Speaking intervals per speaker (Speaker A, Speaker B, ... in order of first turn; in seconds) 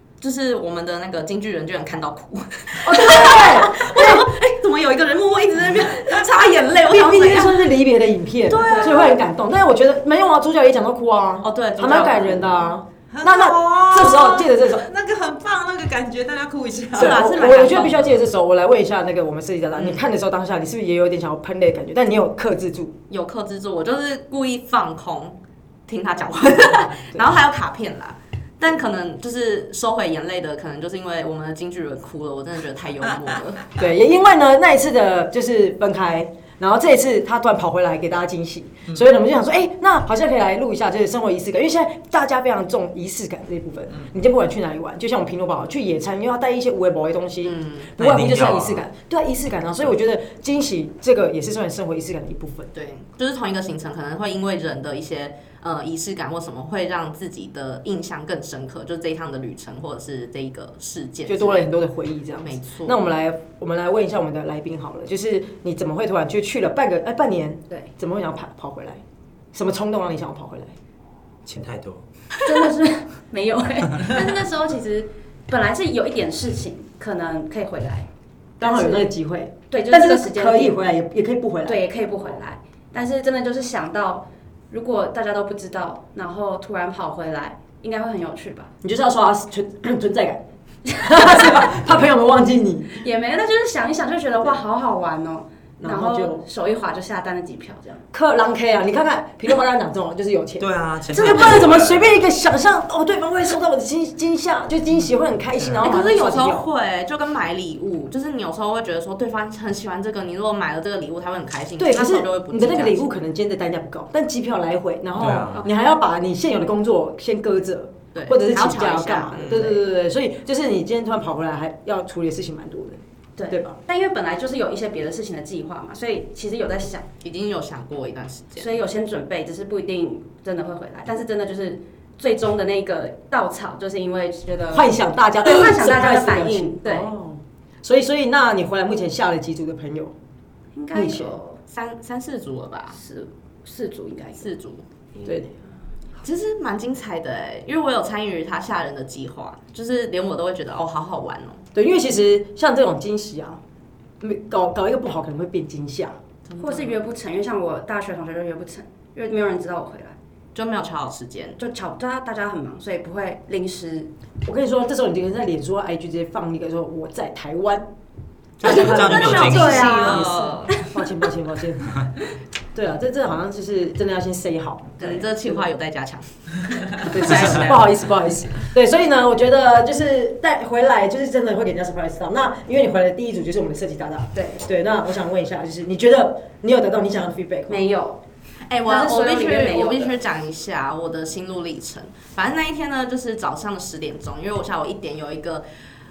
Speaker A: 0.2-7.7, 8.5-9.2, 11.4-12.6, 16.9-18.0, 23.1-33.7, 47.4-47.9, 52.7-61.7, 62.4-63.0, 105.8-113.1, 118.1-119.8, 127.2-128.7, 141.7-143.0, 144.4-144.8, 146.2-151.6, 156.5-157.0, 160.5-161.6, 169.1-170.8, 175.0-177.9, 188.7-195.6
Speaker B: 2.8-4.3, 6.8-14.8, 16.9-22.9, 33.8-52.7, 61.3-69.0, 69.5-70.8, 78.6-81.8, 88.8-93.0, 95.8-96.4, 98.1-106.7, 111.8-123.8, 134.7-140.1, 140.9-141.4, 145.2-145.5, 151.7-153.6, 154.2-156.2, 164.4-167.9, 168.6-172.1, 172.7-175.5, 177.0-187.8
Speaker C: 8.7-9.1, 72.4-78.1, 78.6-79.1, 79.7-80.8, 81.6-88.7, 93.0-98.0, 123.4-127.1, 128.6-134.9, 135.4-137.1, 140.7-141.6, 142.9-144.5, 145.2-145.4, 156.6-160.2, 161.6-164.1, 168.6-171.0, 184.3-184.6, 187.7-188.2, 188.8-190.2
Speaker D: 13.1-17.2
Speaker E: 48.0-48.8, 71.5-72.6, 100.6-102.1, 105.6-105.9, 115.2-115.6, 168.6-170.2